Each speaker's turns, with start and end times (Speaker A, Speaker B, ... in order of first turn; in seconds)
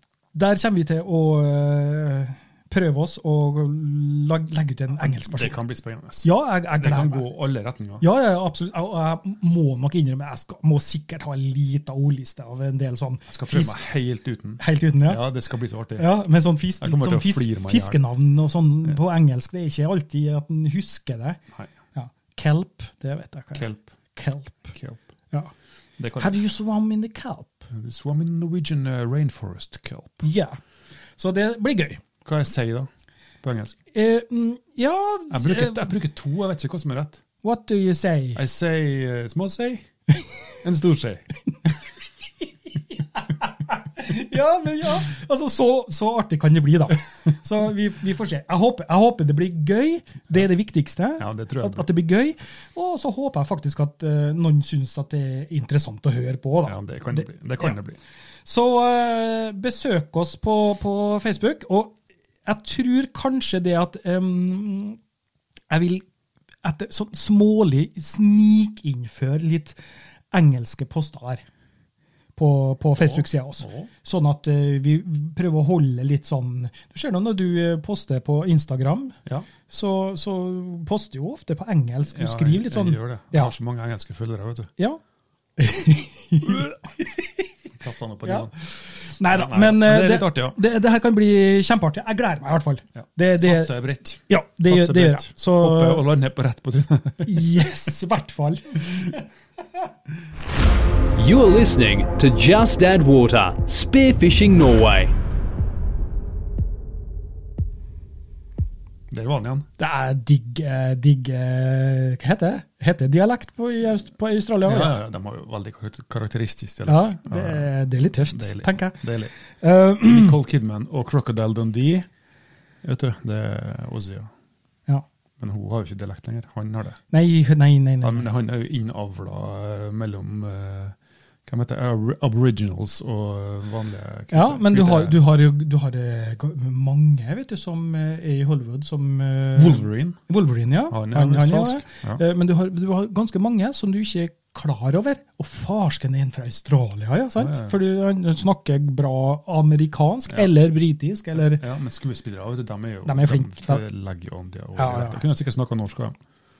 Speaker A: 0.3-5.6, 6.2-7.3, 8.0-13.8, 14.6-15.2, 16.0-21.4, 21.9-24.8, 26.2-27.7, 30.2-30.6, 31.2-32.0, 33.9-35.9, 37.4-38.4, 42.9-57.8, 58.5-65.0, 65.7-66.1, 66.6-69.8, 70.3-71.4, 72.4-79.2, 79.7-83.5, 85.6-87.5, 89.0-96.0, 97.2-99.3, 109.8-115.0, 116.9-119.0, 119.5-120.3, 127.1-128.3, 134.3-151.6, 153.1-153.8, 154.8-155.2
Speaker B: 5.3-8.0, 13.3-16.1, 16.8-18.0, 23.6-23.9, 24.7-25.0, 26.0-26.4, 27.7-30.3, 32.2-32.9, 33.4-33.8, 35.3-37.2, 38.4-39.9, 40.6-41.3, 51.2-51.9, 56.6-58.0, 73.0-73.9, 82.1-84.7, 87.7-90.6, 93.0-97.7, 109.1-109.7, 114.6-119.3, 120.0-122.1, 122.8-124.3, 125.4-127.0, 128.0-130.9, 131.5-135.2, 139.6-140.2, 140.9-142.2, 147.4-147.8, 151.3-156.2
Speaker C: 101.2-105.2